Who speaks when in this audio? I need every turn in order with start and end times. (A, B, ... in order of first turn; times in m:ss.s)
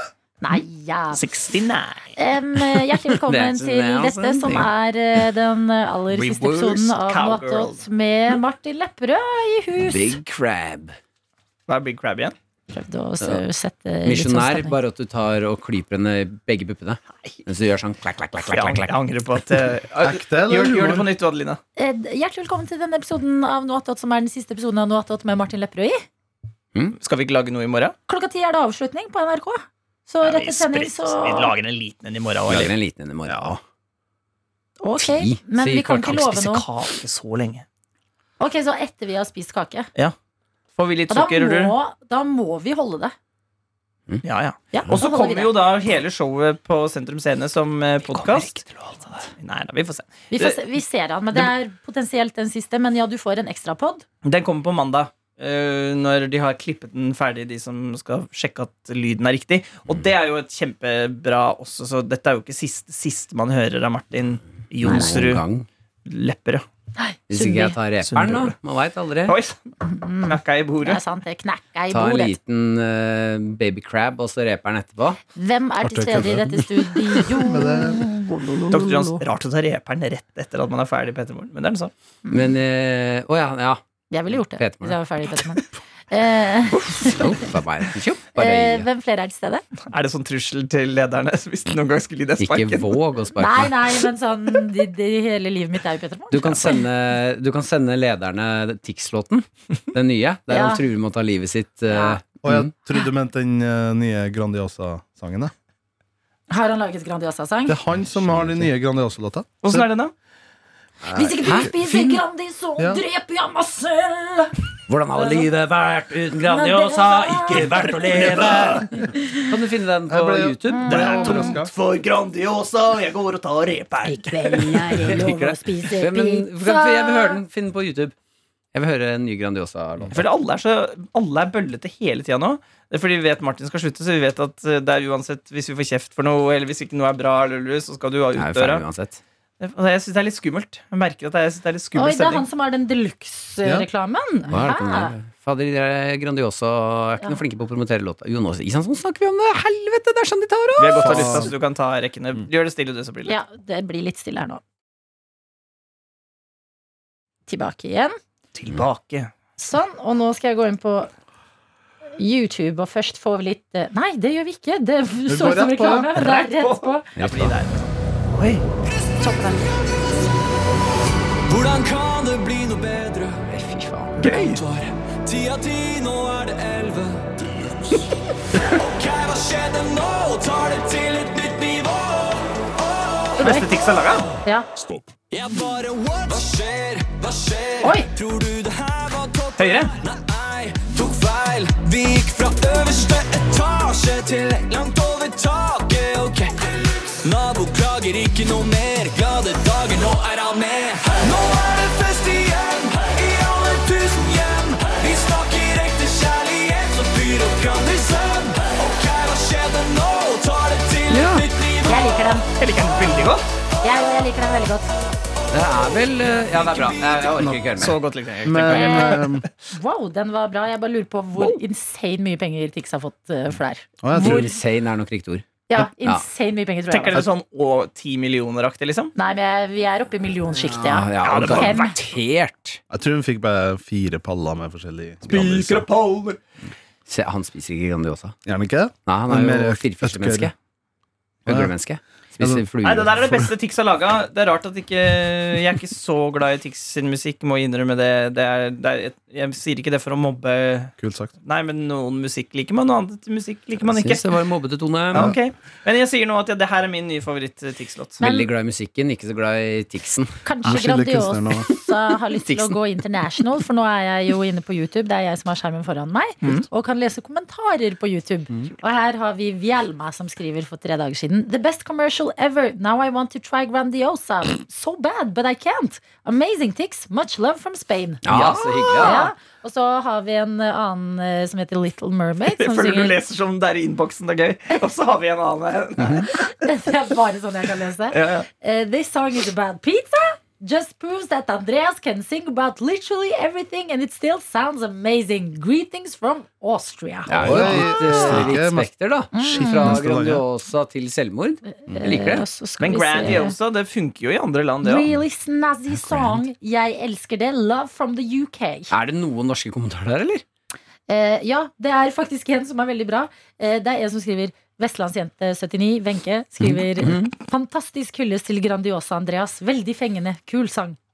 0:00.4-0:01.3 A
0:01.1-0:02.1 B
0:02.2-0:10.2 A
0:03.1-0:04.7 C
0:06.1-0:07.8 B
0:09.9-0:11.0 C
0:11.7-0:12.4 B
0:12.7-0:14.8 A
0:14.0-0:18.9 C
0:18.5-0:21.6 B
0:20.0-0:21.1 D
0:21.8-0:26.0 A
0:27.0-0:28.0 B
0:28.1-0:31.5 A
0:30.2-0:32.7 B
0:32.5-0:33.6 C
0:33.3-0:33.6 B
0:34.8-0:36.7 A
0:35.0-0:36.4 C
0:36.2-0:37.6 B
0:38.4-0:39.9 A
0:40.8-0:41.8 B
0:41.1-0:43.1 A
0:44.2-0:50.6 B
0:44.7-0:45.6 A
0:50.3-0:54.0 A
0:54.2-1:05.4 B
1:04.8-1:05.7 C
1:04.9-1:05.2 A
1:06.0-1:06.6 B
1:07.0-1:07.8 A
1:07.3-1:09.4 C
1:08.0-1:08.6 B
1:09.3-1:09.6 B
1:09.8-1:12.4 A
1:10.2-1:11.0 B
1:11.9-1:15.2 C
1:15.4-1:19.2 A
1:15.8-1:16.5 D
1:17.4-1:18.0 D
1:18.7-1:21.9 B
1:22.3-1:22.6 A
1:22.3-1:23.8 C
1:24.1-1:27.3 A
1:24.4-1:25.0 C
1:27.0-1:28.9 C
1:28.4-1:29.7 A
1:29.9-1:33.0 B
1:32.4-1:33.7 C
1:33.4-1:36.8 A
1:36.3-1:42.7 C
1:40.5-1:40.8 A
1:41.9-1:42.2 A
1:42.4-1:45.5 D
1:46.5-1:47.8 A
1:47.7-1:49.9 D
1:48.1-1:48.7 C
1:49.6-1:50.1 B
1:51.0-1:51.8 D
1:51.1-1:54.6 A
1:51.5-1:52.2 C
1:54.9-1:58.9 C
1:55.2-1:55.5 A
1:56.4-1:57.8 A
1:57.5-1:58.8 B
1:58.9-1:59.4 A
1:59.4-2:01.0 C
2:00.1-2:01.7 D
2:00.7-2:01.6 A
2:00.9-2:05.2 B
2:04.0-2:07.4 A
2:04.9-2:08.1 C
2:08.7-2:10.2 C
2:10.1-2:18.8 B
2:18.3-2:19.2 C
2:19.6-2:22.4 B
2:22.0-2:25.2 A
2:23.6-2:23.9 D
2:24.5-2:31.4 C
2:30.8-2:33.3 B
2:31.0-2:31.5 D
2:33.3-2:34.6 A
2:37.5-2:38.2 A
2:38.6-2:39.3 B
2:39.6-2:41.1 A
2:42.2-2:47.1 A
2:45.3-2:46.1 D
2:46.2-2:48.6 B
2:47.2-2:47.5 C
2:49.2-2:49.7 A
2:51.5-2:53.4 E
2:53.4-2:54.9 C
2:54.2-2:54.6 B
2:55.0-2:57.4 E
2:58.8-3:03.2 E
3:03.4-3:03.7 A
3:03.4-3:04.3 B
3:05.3-3:32.1 E
3:07.8-3:08.1 A
3:09.6-3:09.9 B
3:31.1-3:31.5 C
3:31.8-3:32.5 A
3:32.6-3:33.4 B
3:33.8-3:34.9 A
3:35.5-3:38.0 C
3:36.8-3:37.1 E
3:37.3-3:37.8 D
3:37.8-3:39.5 B
3:38.4-3:39.4 D
3:38.8-3:39.2 A
3:39.7-3:44.5 A
3:44.0-3:44.5 D
3:44.1-3:45.4 C
3:45.7-3:47.2 A
3:46.9-3:49.1 B
3:49.2-3:51.9 A
3:50.6-3:52.8 C
3:51.2-3:52.0 B
3:52.9-3:55.9 D
3:55.3-3:56.4 B
3:57.1-3:58.4 C
3:58.5-4:00.5 D
3:59.1-4:00.5 C
4:01.5-4:03.3 C
4:01.5-4:01.7 D
4:02.4-4:02.7 D
4:02.8-4:10.9 B
4:11.0-4:11.3 D
4:11.4-4:14.3 B
4:13.8-4:15.4 C
4:15.1-4:18.2 B
4:18.2-4:20.3 C
4:18.2-4:18.5 A
4:20.4-4:43.2 A
4:20.6-4:21.7 D
4:22.4-4:22.8 B
4:38.2-4:39.3 C
4:42.5-4:46.4 B
4:46.3-4:58.5 A
4:48.1-4:48.5 B
4:57.3-5:02.5 C
4:57.3-5:00.4 D
4:59.3-5:00.0 A
5:01.7-5:03.6 A
5:02.8-5:05.1 B
5:04.8-5:08.9 A
5:05.9-5:06.4 C
5:08.9-5:10.4 C
5:11.1-5:21.0 A
5:16.6-5:17.3 C